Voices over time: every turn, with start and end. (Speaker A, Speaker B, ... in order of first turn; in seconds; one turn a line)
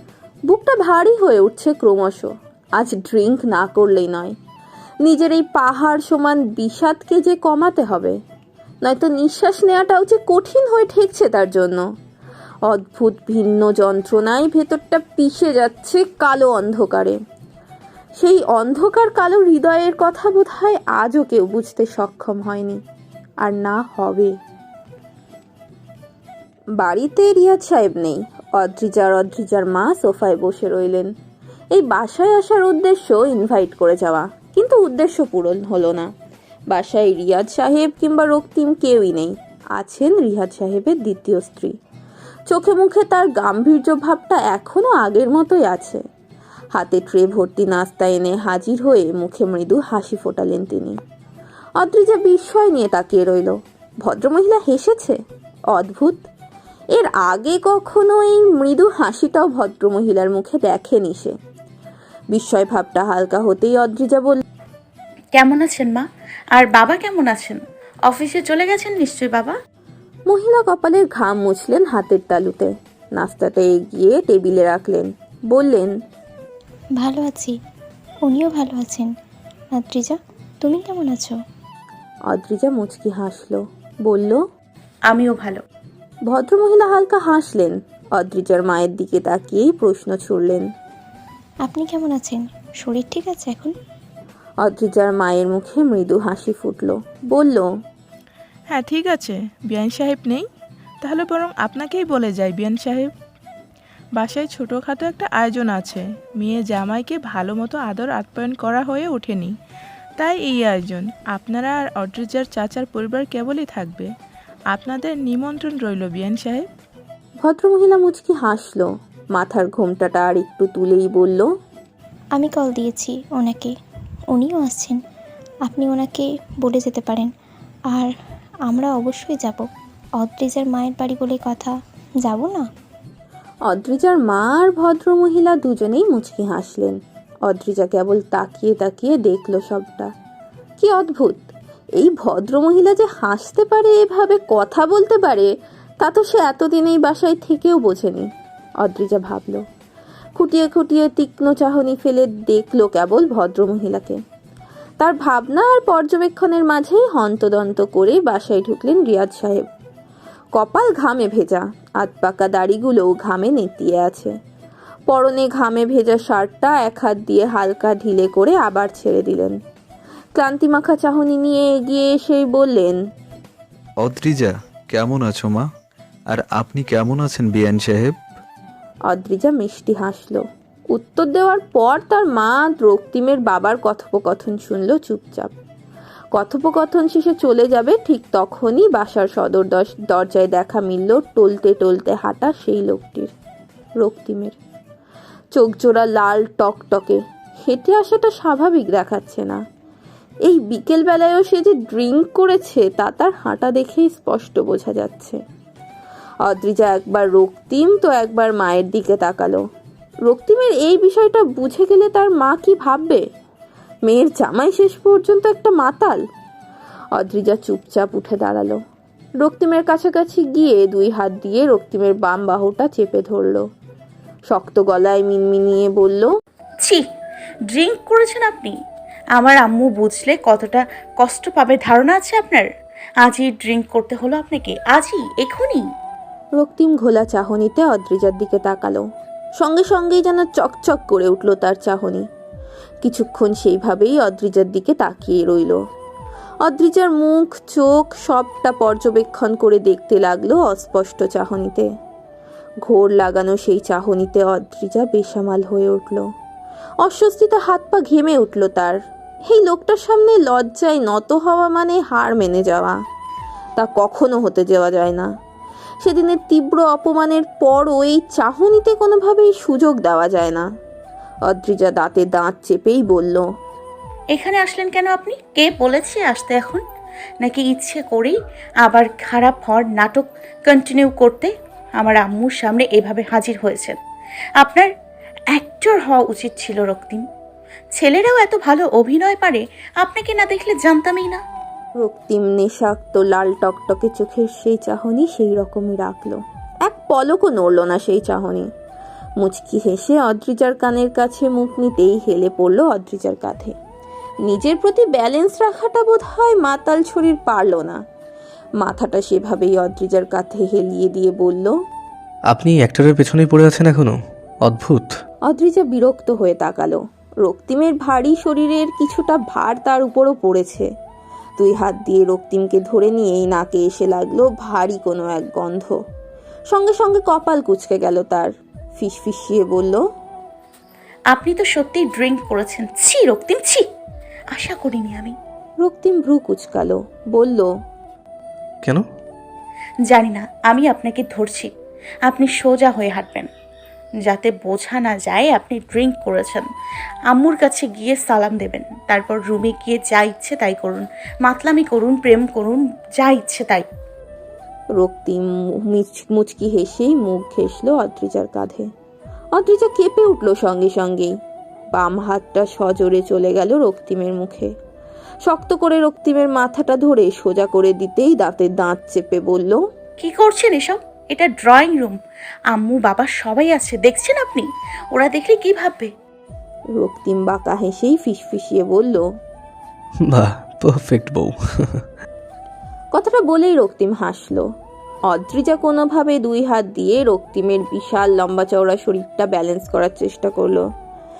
Speaker A: 0.5-4.3
Speaker A: 5.0-8.2
Speaker A: 8.8-11.8
Speaker A: 12.7-17.2
Speaker A: 18.2-22.8
Speaker A: 23.4-24.3
Speaker A: 26.8-31.1
Speaker A: 31.7-36.1
Speaker A: 36.7-41.7
Speaker A: 42.5-46.0
Speaker A: 46.7-51.0
Speaker A: 51.8-55.2
Speaker A: 55.7-56.2
Speaker A: 56.9-61.3
Speaker A: 62.3-64.4
Speaker B: 65.3-69.5
Speaker A: 70.3-75.9
Speaker C: 77.0-77.5
Speaker C: 78.2-79.1
Speaker C: 79.7-81.3
Speaker A: 82.3-84.4
Speaker B: 85.1-85.6
Speaker A: 86.3-90.6
Speaker C: 91.6-93.7
Speaker A: 94.6-97.7
Speaker D: 98.7-100.5
Speaker D: 101.0-103.1
Speaker D: 104.2-109.5
Speaker D: 110.2-114.1
Speaker D: 114.7-116.7
Speaker A: 117.4-121.5
Speaker C: 122.3-123.7
Speaker C: 124.3-125.0
Speaker C: 125.6-127.3
Speaker C: 128.7-129.7
Speaker C: 130.2-132.7
Speaker A: 133.7-140.1
Speaker A: 140.8-141.5
Speaker A: 142.0-148.3
Speaker A: 148.8-149.6
Speaker A: 150.4-154.2
Speaker A: 155.0-159.6
Speaker A: 160.6-164.3
Speaker A: 165.1-169.6
Speaker A: 170.4-173.0
Speaker E: 174.0-175.7
Speaker E: 176.3-178.2
Speaker A: 179.1-185.5
Speaker A: 186.3-193.3
Speaker A: 194.0-194.6
Speaker A: 195.5-199.6
Speaker A: 200.5-205.4
Speaker A: 206.4-209.6
Speaker A: 210.3-213.2
Speaker A: 214.1-216.2
Speaker A: 217.1-218.8
Speaker A: 219.4-223.6
Speaker A: 224.5-226.3
Speaker B: 227.7-228.8
Speaker B: 229.4-232.7
Speaker B: 233.2-235.8
Speaker A: 236.6-239.0
Speaker A: 239.6-242.2
Speaker A: 243.0-245.8
Speaker A: 246.6-251.9
Speaker A: 252.8-256.2
Speaker A: 257.0-259.0
Speaker A: 259.5-263.0
Speaker A: 263.8-265.3
Speaker A: 266.0-270.6
Speaker A: 271.5-273.4
Speaker B: 274.3-276.8
Speaker B: 277.4-283.9
Speaker B: 284.6-284.9
Speaker B: 285.5-287.2
Speaker B: 287.9-291.4
Speaker A: 292.0-298.7
Speaker A: 299.4-303.7
Speaker A: 304.5-308.0
Speaker A: 308.8-311.7
Speaker F: 312.5-315.1
Speaker A: 315.5-320.9
Speaker A: 321.6-325.9
Speaker A: 326.7-330.0
Speaker B: 331.3-333.8
Speaker B: 334.5-335.3
Speaker A: 335.8-337.7
Speaker B: 340.1-341.7
Speaker B: 342.3-343.5
Speaker B: 344.2-346.7
Speaker B: 347.3-353.9
Speaker A: 355.0-358.9
Speaker A: 359.6-361.3
Speaker A: 361.9-364.7
Speaker A: 365.5-369.8
Speaker B: 370.2-372.1
Speaker B: 372.7-376.1
Speaker A: 377.0-379.2
Speaker F: 380.3-382.0
Speaker A: 383.1-384.6
Speaker A: 385.3-390.8